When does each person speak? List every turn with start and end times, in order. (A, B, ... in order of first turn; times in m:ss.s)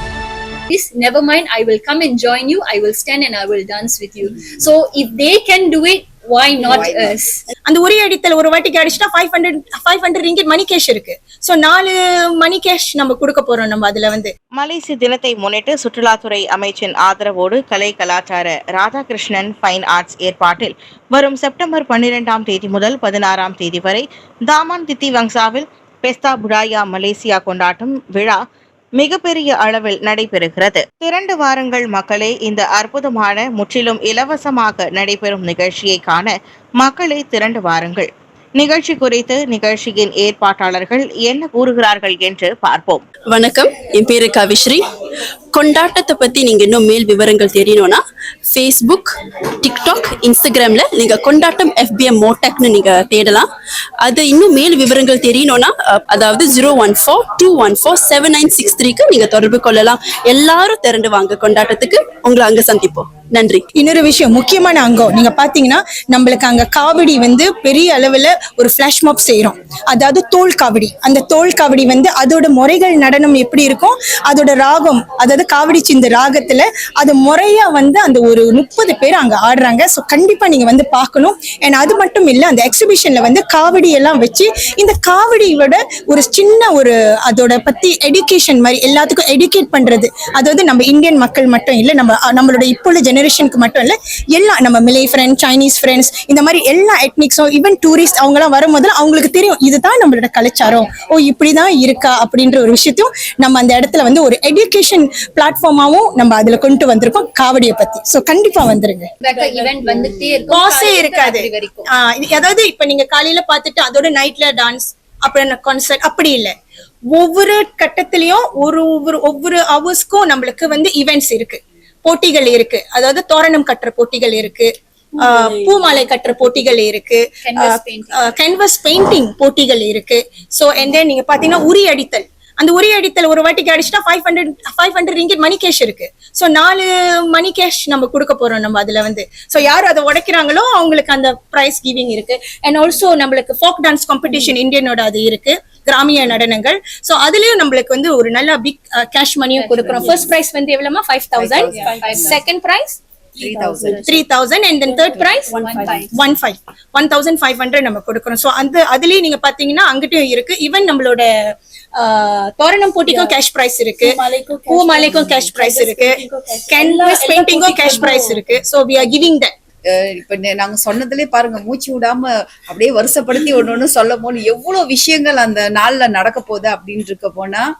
0:00.7-0:07.4 A
0:06.6-0:07.1 B
0:07.7-0:14.3 C
0:14.6-0:28.4 D
0:29.0-0:43.0 D
0:43.3-0:44.8 E
0:45.5-0:49.1 E
0:49.6-0:53.4 E
0:54.0-1:03.6 E
1:03.8-1:49.1 C
1:49.2-1:51.9 A
1:50.5-1:56.5 C
1:57.1-2:33.0 C
2:07.4-2:08.3 A
2:29.6-2:30.3 A
2:31.4-2:32.4 B
2:31.7-2:32.4 A
2:33.4-2:34.2 B
2:34.0-2:41.3 C
2:35.0-2:36.1 A
2:41.9-2:49.5 C
2:44.2-2:48.4 A
2:49.9-2:57.6 B